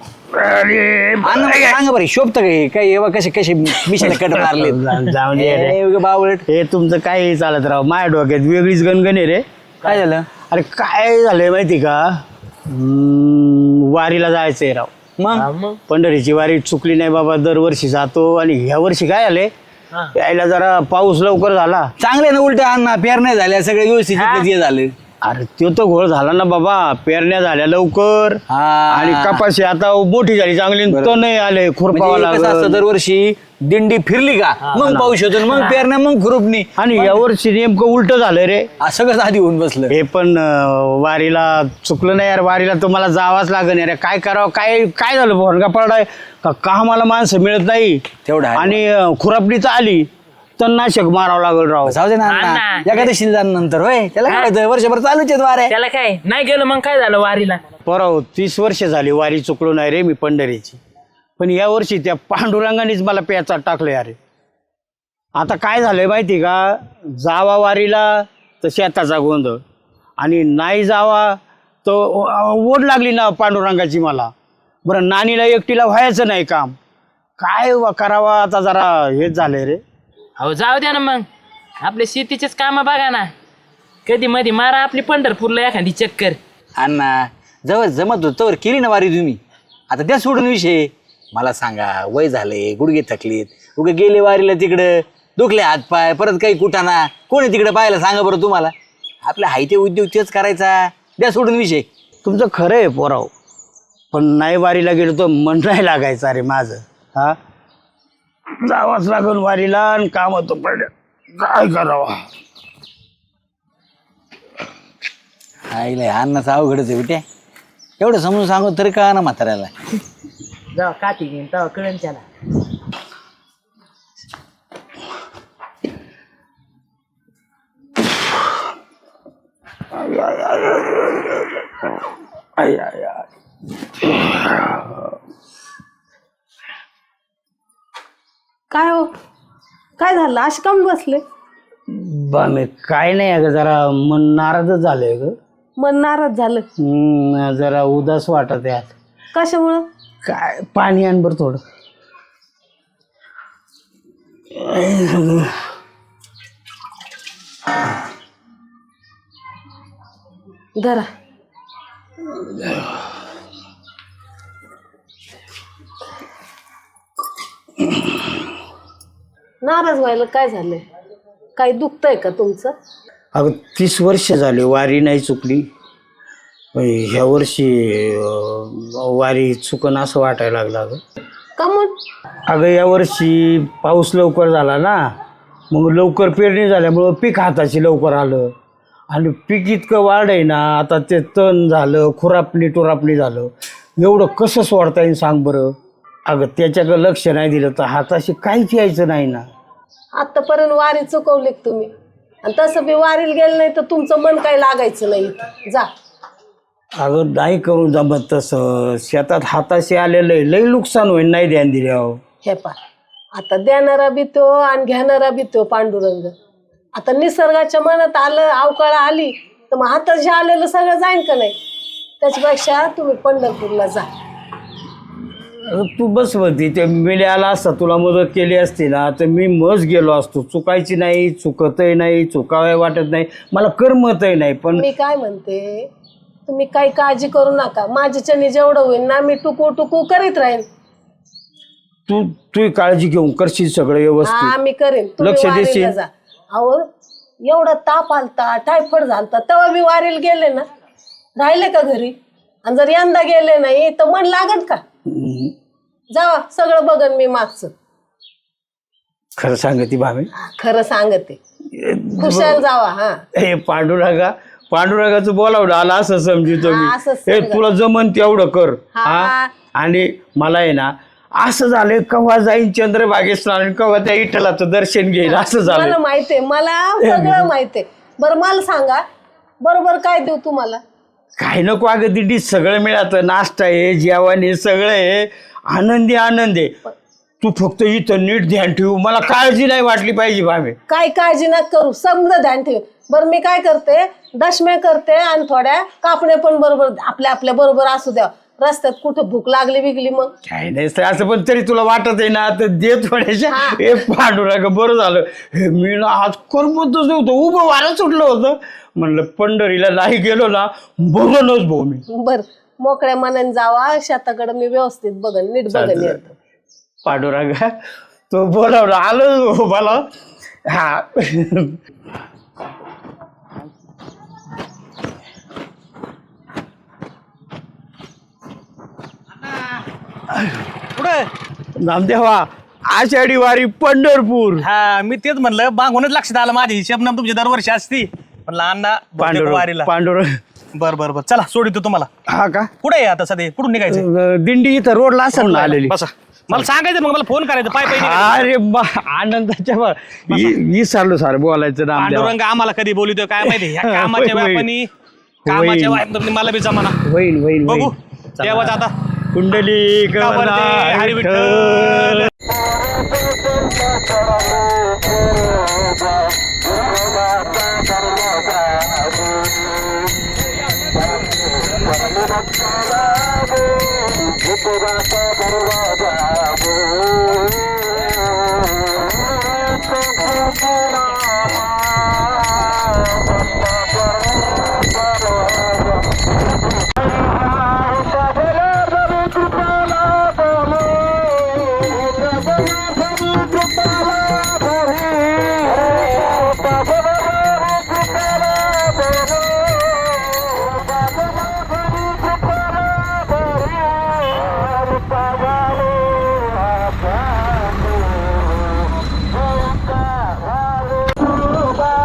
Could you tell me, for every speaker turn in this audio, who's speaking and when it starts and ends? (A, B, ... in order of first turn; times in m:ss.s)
0:00.3-0:01.8 A
0:01.2-0:06.4 B
0:03.8-0:05.8 A
0:06.5-0:09.4 A
0:09.8-0:10.3 B
0:10.4-0:14.9 A
0:15.2-0:15.5 B
0:15.3-0:15.8 C
0:15.9-0:19.5 A
0:20.1-0:21.9 A
0:22.0-0:24.9 B
0:24.1-0:24.5 C
0:25.2-0:32.8 A
0:28.5-0:29.4 B
0:30.9-0:31.2 B
0:31.9-0:36.7 B
0:34.7-0:35.2 A
0:35.5-0:35.8 C
0:36.8-0:38.7 A
0:38.8-0:39.9 B
0:39.9-0:52.0 A
0:48.2-0:48.8 B
0:51.8-0:55.7 B
0:52.2-0:53.1 C
0:54.2-0:54.5 C
0:55.7-0:57.6 C
0:57.8-1:00.8 A
1:01.4-1:04.2 A
1:05.4-1:09.6 A
1:10.2-1:14.3 A
1:14.8-1:16.8 A
1:17.4-1:19.8 A
1:20.4-1:21.3 C
1:21.8-1:23.3 C
1:24.0-1:26.4 C
1:26.8-1:29.4 B
1:29.9-1:41.8 B
1:42.2-1:43.3 A
1:44.1-1:47.4 A
1:48.6-1:52.3 A
1:55.7-1:57.2 B
1:58.0-1:59.7 B
2:00.7-2:02.2 C
2:09.9-2:11.9 A
2:12.6-2:13.2 A
2:14.0-2:15.2 A
2:18.7-2:19.1 D
2:20.0-2:21.2 D
2:21.9-2:25.3 A
2:25.8-2:26.6 D
2:26.8-2:28.9 A
2:29.3-2:29.8 D
2:30.2-2:31.6 A
2:34.5-2:35.6 A
2:40.8-2:41.0 D
2:47.8-2:48.3 A
2:49.6-2:50.8 D
2:51.6-2:52.7 D
2:53.3-2:55.7 A
2:56.7-3:01.0 A
3:01.6-3:01.9 D
3:02.5-3:05.1 A
3:05.7-3:08.5 A
3:09.1-3:15.7 A
3:16.3-3:19.4 A
3:20.2-3:21.9 D
3:22.4-3:25.9 D
3:27.0-3:32.2 A
3:32.4-3:32.8 D
3:33.3-3:36.3 D
3:37.0-3:41.5 D
3:42.2-3:44.0 D
3:45.6-3:54.8 A
3:54.7-3:55.9 D
3:56.5-4:00.6 D
4:02.1-4:04.6 A
4:04.2-4:06.9 D
4:05.2-4:05.9 A
4:07.4-4:10.6 D
4:11.4-4:12.1 D
4:12.6-4:14.8 D
4:15.1-4:15.5 A
4:16.1-4:17.7 D
4:19.4-4:20.3 A
4:20.4-4:21.4 D
4:21.7-4:22.6 A
4:22.2-4:23.2 D
4:23.3-4:36.0 A
4:26.6-4:27.6 D
4:28.9-4:29.5 D
4:35.2-4:39.0 D
4:37.0-4:37.5 A
4:39.6-4:40.8 D
4:41.4-4:46.8 A
4:47.4-4:50.8 A
4:50.9-5:00.3 D
5:00.4-5:12.0 A
5:03.5-5:04.0 D
5:12.1-5:16.3 D
5:15.7-5:16.2 A
5:17.0-5:17.7 A
5:18.3-5:20.0 A
5:20.6-5:21.8 A
5:30.9-5:31.3 E
5:31.8-5:34.6 A
5:34.6-5:39.9 E
5:39.2-5:40.4 A
5:40.7-5:42.1 E
5:42.2-5:42.7 A
5:42.8-5:44.1 E
5:43.9-5:46.0 A
5:45.3-5:48.5 E
5:47.8-5:52.3 A
5:51.9-5:54.9 E
5:53.4-5:54.7 A
5:55.4-5:56.0 A
5:55.5-5:57.0 E
5:57.0-6:02.3 A
5:57.6-5:58.9 E
6:00.2-6:02.3 E